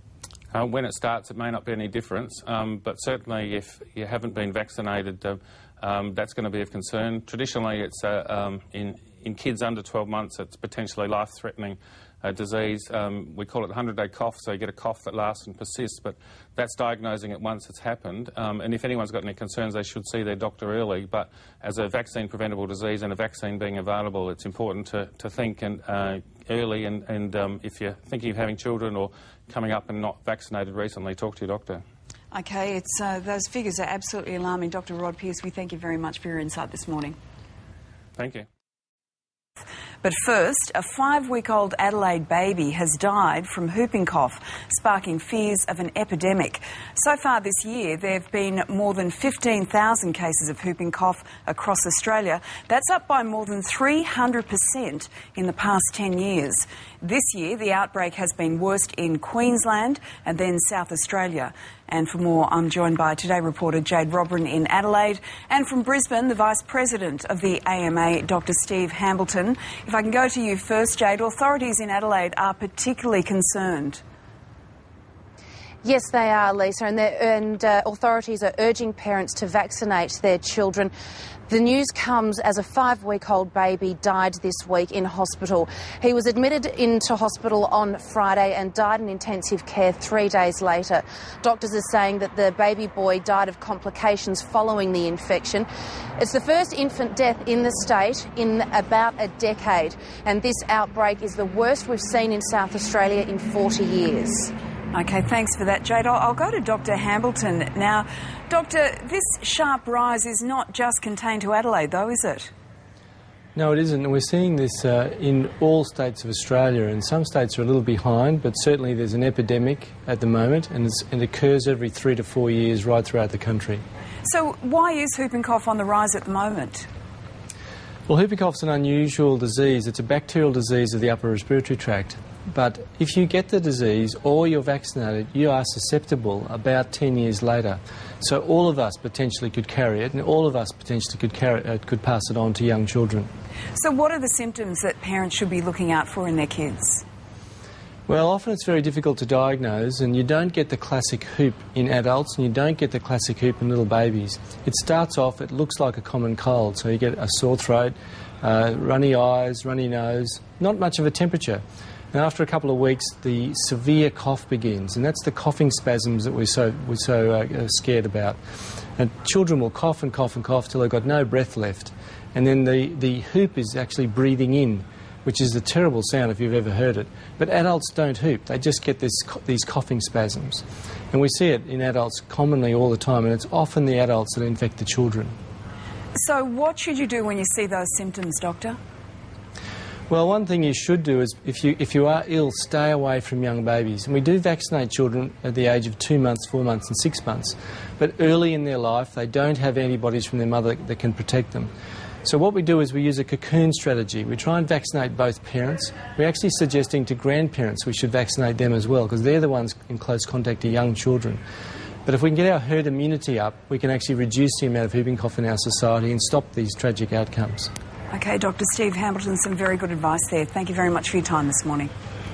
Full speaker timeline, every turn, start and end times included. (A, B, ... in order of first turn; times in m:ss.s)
0:00.5-0:31.8 A
0:32.3-0:37.2 B
0:38.2-0:38.5 A
0:40.0-1:14.0 B
1:15.8-1:20.9 C
1:21.5-1:35.7 C
1:36.2-1:44.5 C
1:44.9-1:52.5 B
1:53.6-2:03.8 D
2:04.2-2:06.9 B
2:08.1-2:23.3 D
2:23.8-2:27.0 B
2:28.1-2:48.4 D
2:49.0-3:05.4 D
3:06.2-3:08.8 B
3:10.1-3:21.7 D
3:22.2-3:31.4 D
3:32.0-3:37.7 D
3:38.1-3:41.9 B